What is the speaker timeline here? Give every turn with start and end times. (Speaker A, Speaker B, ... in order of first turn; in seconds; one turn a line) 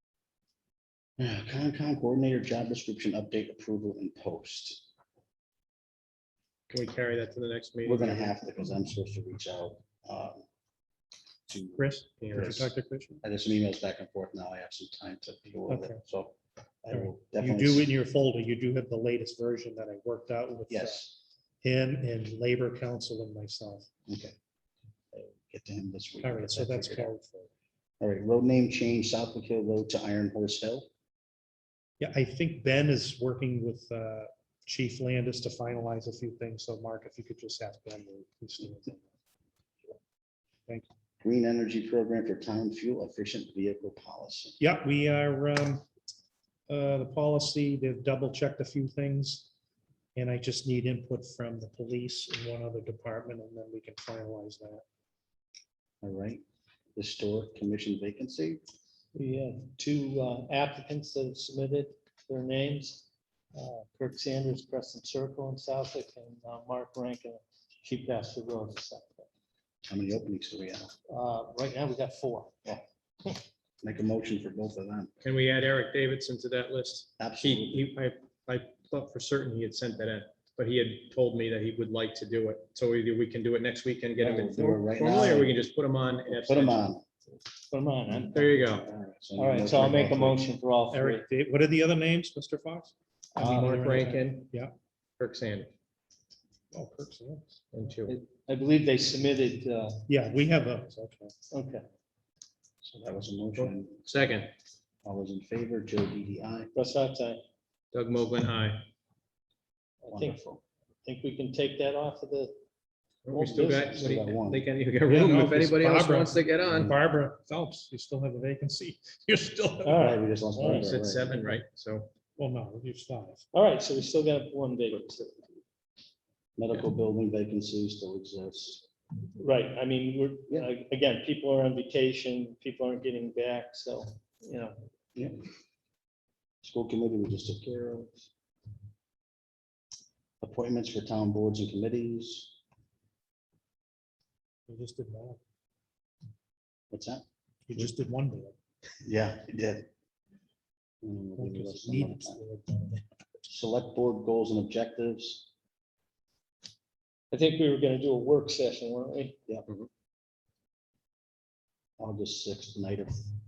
Speaker A: 1.2-4.8
Speaker B: 6.7-8.4
Speaker A: 7.8-10.4
Speaker A: 11.5-12.6
Speaker C: 11.8-13.2
Speaker B: 12.2-12.7
Speaker A: 13.2-17.9
Speaker C: 15.7-16.0
Speaker C: 16.9-23.9
Speaker A: 20.7-21.1
Speaker A: 24.1-24.4
Speaker A: 25.1-27.1
Speaker C: 26.2-27.5
Speaker A: 28.0-30.9
Speaker C: 32.0-39.1
Speaker A: 41.2-44.6
Speaker C: 44.6-45.9
Speaker C: 46.7-49.5
Speaker C: 50.1-54.8
Speaker A: 56.0-56.4
Speaker A: 57.0-58.6
Speaker D: 59.1-69.3
Speaker A: 69.9-70.9
Speaker D: 71.1-72.8
Speaker A: 73.8-75.1
Speaker B: 75.2-86.9
Speaker A: 77.2-77.9
Speaker A: 84.2-85.6
Speaker A: 86.3-87.0
Speaker D: 87.7-88.5
Speaker A: 88.2-90.4
Speaker B: 88.3-88.9
Speaker D: 89.4-91.3
Speaker C: 90.9-94.7
Speaker D: 93.4-93.8
Speaker B: 93.4-94.5
Speaker B: 95.2-95.7
Speaker C: 96.7-98.0
Speaker B: 97.7-98.2
Speaker D: 98.1-100.0
Speaker C: 100.1-101.3
Speaker D: 101.5-101.9
Speaker A: 102.8-104.1
Speaker B: 103.6-104.5
Speaker A: 105.0-106.7
Speaker D: 106.8-107.4
Speaker B: 107.9-108.9
Speaker D: 110.0-110.4
Speaker A: 110.1-110.6
Speaker D: 111.0-112.5
Speaker B: 113.2-116.9
Speaker A: 113.3-114.7
Speaker C: 115.1-120.1
Speaker D: 119.8-120.9
Speaker A: 120.0-121.4
Speaker B: 120.7-122.1
Speaker C: 122.4-123.4
Speaker D: 123.5-125.4
Speaker A: 126.6-128.8
Speaker D: 129.4-134.8
Speaker A: 136.6-138.3
Speaker A: 140.4-142.6
Speaker C: 144.7-145.4
Speaker A: 146.9-147.2
Speaker C: 147.7-148.6
Speaker A: 149.0-149.9
Speaker A: 151.0-152.4
Speaker C: 151.4-153.4
Speaker A: 153.5-155.5
Speaker D: 157.3-159.4
Speaker A: 162.0-163.2